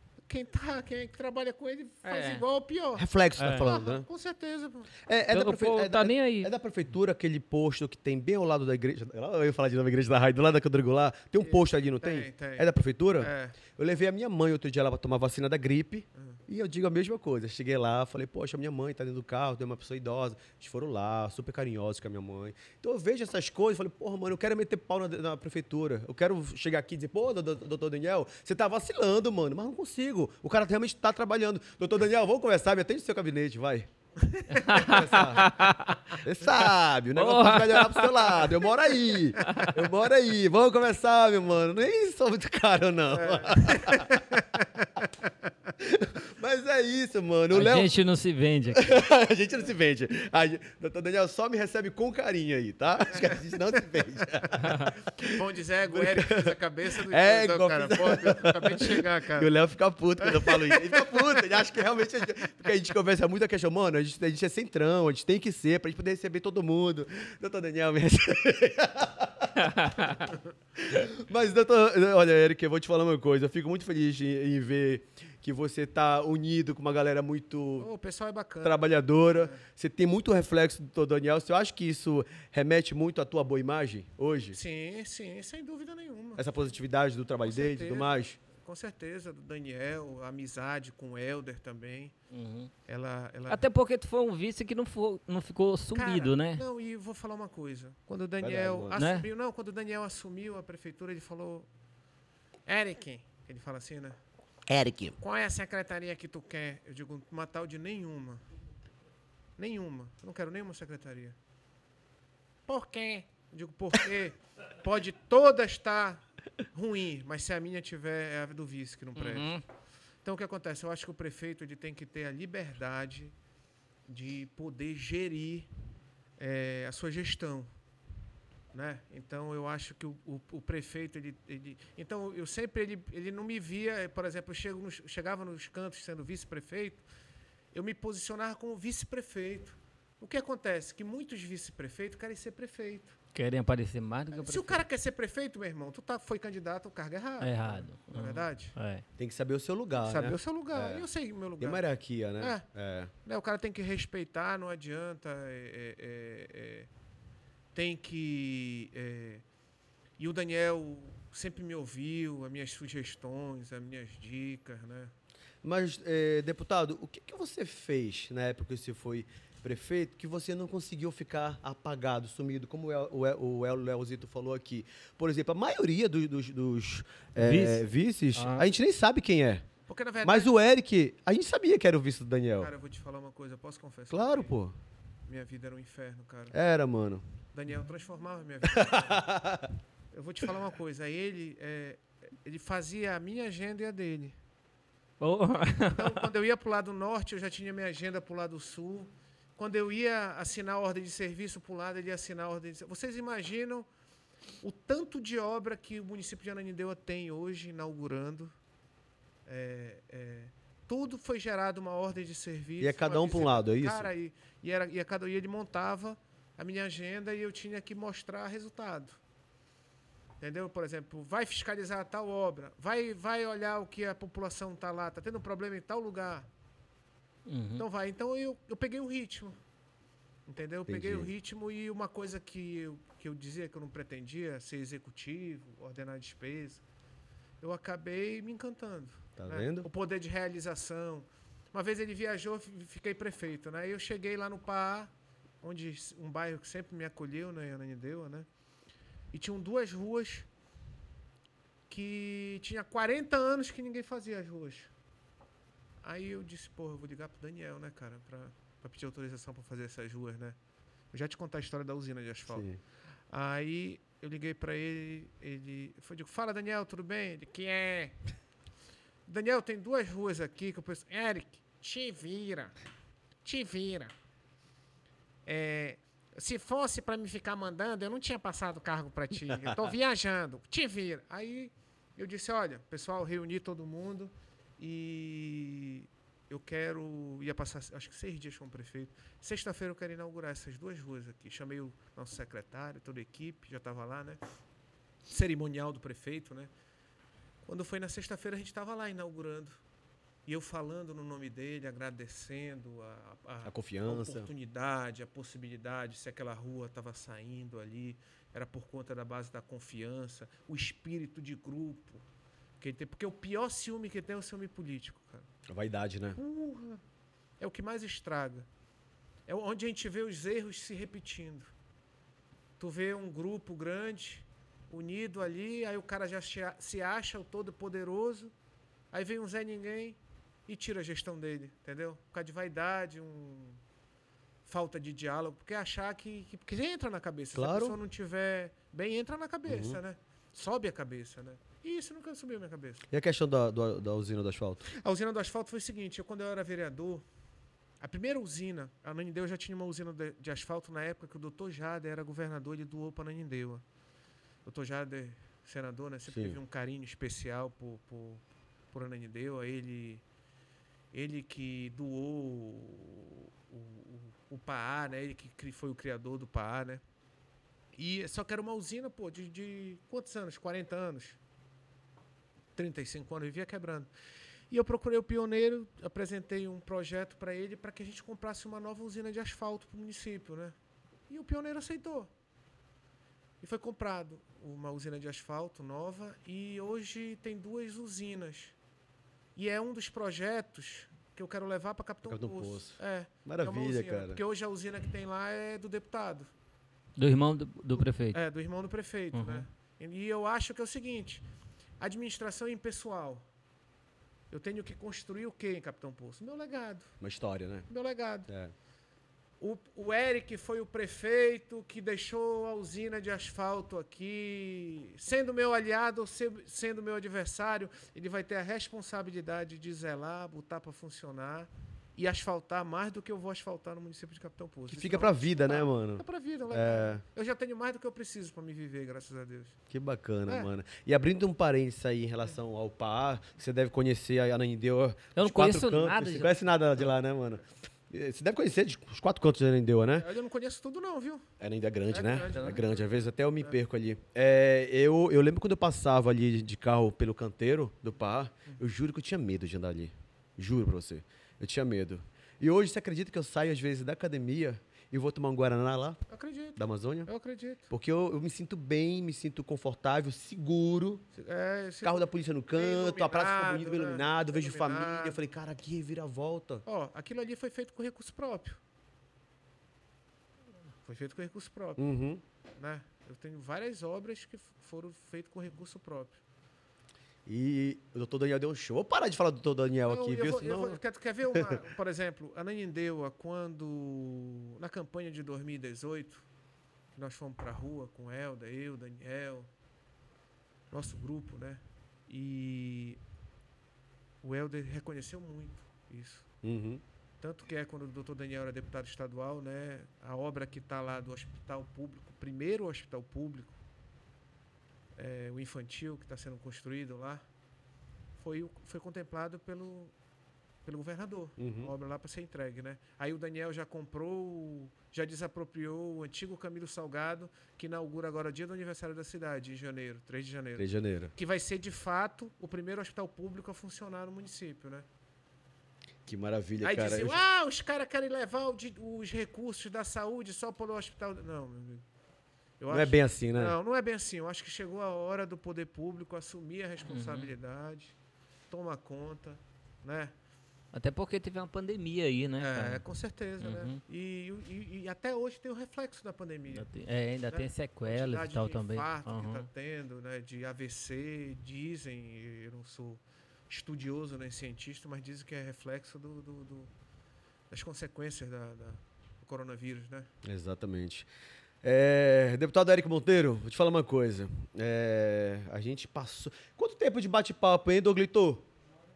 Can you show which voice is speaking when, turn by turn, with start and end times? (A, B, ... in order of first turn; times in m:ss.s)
0:00.2-0:04.9 A
0:02.0-0:02.4 B
0:03.0-0:04.0 C
0:03.4-0:03.7 B
0:05.0-0:33.9 C
0:05.3-0:06.5 B
0:11.4-0:13.6 A
0:16.1-0:16.4 A
0:34.2-0:35.0 A
0:34.5-0:36.0 B
0:34.6-0:44.2 C
0:37.1-0:38.5 B
0:39.4-0:39.7 B
0:43.1-0:45.1 A
0:45.8-0:47.9 C
0:47.5-0:49.0 B
0:48.7-1:17.9 C
0:55.2-0:59.5 A
1:00.2-1:01.6 A
1:09.6-1:10.1 B
1:17.8-1:19.6 A
1:18.6-1:24.6 C
1:24.5-1:26.7 A
1:26.4-1:28.4 C
1:27.4-1:32.1 A
1:32.3-1:32.7 B
1:32.9-1:33.6 A
1:33.5-1:36.6 B
1:35.9-1:41.7 A
1:38.4-1:39.0 C
1:39.0-1:39.3 B
1:42.6-1:44.2 A
1:44.7-1:45.2 C
1:45.2-1:48.4 A
1:49.6-1:51.4 A
1:52.7-1:59.6 A
1:59.2-1:59.6 B
2:00.2-2:03.3 A
2:04.1-2:05.7 A
2:06.4-2:07.7 A
2:08.7-2:17.0 A
2:17.7-2:23.2 A
2:23.3-2:24.8 B
2:24.3-2:28.7 A
2:27.4-2:29.0 B
2:29.2-2:31.0 C
2:30.0-2:31.8 A
2:31.6-2:33.1 C
2:32.4-2:32.6 A
2:33.2-2:36.9 A
2:37.7-2:39.4 A
2:40.2-2:45.1 A
2:45.6-2:59.6 C
2:57.4-2:58.7 B
2:59.9-3:00.6 A
3:00.2-3:02.7 C
3:02.6-3:04.5 A
3:04.1-3:04.7 C
3:05.3-3:06.5 A
3:06.5-3:07.2 C
3:07.5-3:09.3 A
3:08.7-3:09.7 C
3:10.1-3:14.4 A
3:15.2-3:16.2 B
3:15.9-3:23.9 A
3:24.6-3:28.5 A
3:29.4-3:39.2 A
3:32.8-3:34.1 C
3:40.4-3:46.5 A
3:47.4-3:47.8 B
3:47.8-3:49.6 A
3:50.5-3:56.8 A
3:50.9-3:51.3 C
3:57.6-4:05.1 A
3:59.4-3:59.9 C
4:05.6-4:08.5 A
4:09.3-4:10.5 A
4:11.9-4:14.9 A
4:16.0-4:20.6 A
4:21.1-4:22.6 A
4:22.5-4:22.8 C
4:23.3-4:28.2 A
4:29.3-4:32.7 A
4:33.4-4:34.1 A
4:35.4-4:54.4 A
4:55.3-4:56.7 A
4:57.6-4:59.8 A
5:00.4-5:12.2 A
5:03.6-5:04.5 C
5:12.8-5:15.5 A
5:15.7-5:16.4 C
5:16.4-5:17.0 A
5:17.6-5:18.7 A
5:19.5-5:21.7 A
5:22.8-5:28.5 A
5:29.1-5:33.8 A
5:34.6-5:43.0 A
5:37.5-5:38.0 C
5:39.7-5:40.0 C
5:43.1-5:44.9 C
5:44.9-5:47.2 A
5:48.0-5:53.8 A
5:54.6-6:00.2 A
5:56.3-5:56.6 C
6:01.1-6:07.0 A
6:07.9-6:11.4 A
6:12.8-6:14.1 A
6:14.7-6:20.7 A
6:21.3-6:22.3 A
6:23.6-6:28.7 A
6:29.6-6:36.5 A
6:32.2-6:34.4 C
6:37.2-6:38.4 B
6:38.3-6:41.4 A
6:39.3-6:39.6 B
6:42.0-6:43.4 A
6:44.5-6:47.1 A
6:47.2-6:47.9 C
6:47.9-6:48.5 A
6:48.5-6:48.7 C
6:49.6-7:09.8 A
7:04.9-7:07.2 C
7:09.9-7:20.3 C
7:15.4-7:16.5 B
7:20.2-7:21.5 A
7:21.6-7:36.2 C
7:22.1-7:23.8 A
7:22.4-7:22.8 B
7:36.3-7:37.9 A
7:36.8-7:37.3 C
7:37.9-7:41.2 C
7:41.4-7:45.4 A
7:42.0-7:46.8 C
7:46.8-7:48.8 A
7:51.0-7:52.0 A
7:52.0-7:52.4 C
7:52.8-7:56.4 A
7:57.4-8:01.0 C
8:00.1-8:06.4 A
8:07.2-8:09.7 A
8:10.9-8:13.2 A
8:14.4-8:16.5 A
8:16.6-8:17.0 C
8:17.4-8:23.8 A
8:25.2-8:27.4 A
8:28.4-8:30.1 A
8:30.8-8:45.0 A
8:31.6-8:31.9 C
8:40.8-8:41.3 C
8:46.2-8:47.4 C
8:46.8-8:52.0 A
8:52.8-8:58.1 A
8:52.9-8:53.8 C
8:57.1-8:57.5 B
8:58.7-9:00.3 A
9:00.9-9:03.0 B
9:02.6-9:06.9 A
9:03.6-9:04.0 B
9:06.7-9:09.7 B
9:07.5-9:16.9 A
9:17.7-9:20.3 A
9:20.4-9:21.3 C
9:21.8-9:28.6 C